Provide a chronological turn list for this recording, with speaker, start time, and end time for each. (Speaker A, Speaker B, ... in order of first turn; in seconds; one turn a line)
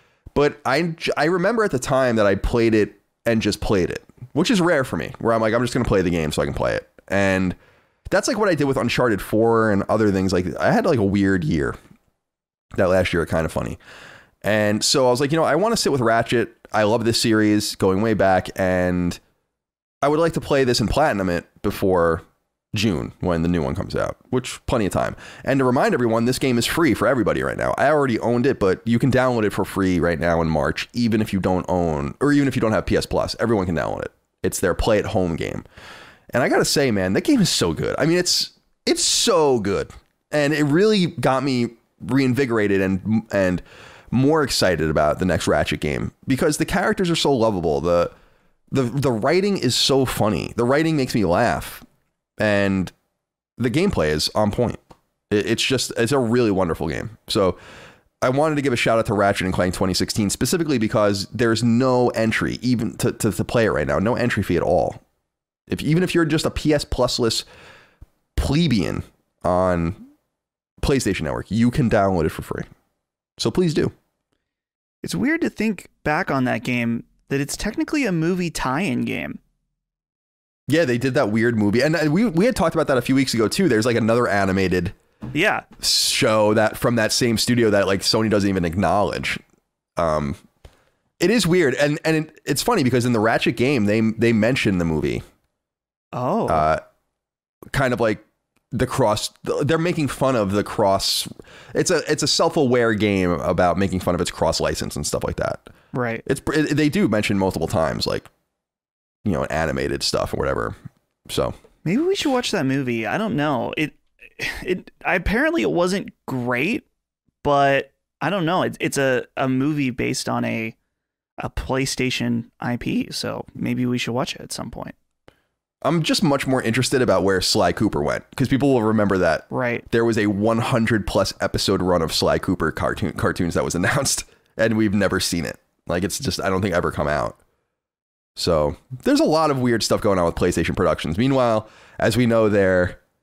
Speaker A: 0.3-7.6
Speaker A: 8.1-11.8
Speaker A: 12.8-13.8
Speaker A: 14.4-19.2
Speaker A: 20.0-35.6
Speaker A: 36.3-48.1
Speaker A: 48.7-51.9
Speaker A: 52.4-52.9
Speaker A: 53.6-57.6
Speaker A: 58.2-65.0
Speaker A: 65.7-67.5
Speaker A: 68.4-70.1
Speaker A: 70.8-72.7
Speaker A: 73.4-73.9
Speaker B: 75.0-79.4
Speaker A: 80.7-85.0
Speaker B: 85.3-85.7
Speaker A: 85.8-89.4
Speaker A: 90.0-90.4
Speaker A: 91.2-95.2
Speaker B: 96.1-96.7
Speaker A: 96.5-96.8
Speaker A: 97.7-98.2
Speaker A: 98.7-105.7
Speaker B: 105.9-106.2
Speaker A: 106.2-108.3
Speaker A: 109.2-110.8
Speaker A: 111.3-111.5
Speaker B: 111.8-116.8
Speaker B: 117.4-120.8
Speaker B: 121.4-125.0
Speaker A: 125.8-137.4
Speaker B: 129.5-129.8
Speaker A: 138.4-143.0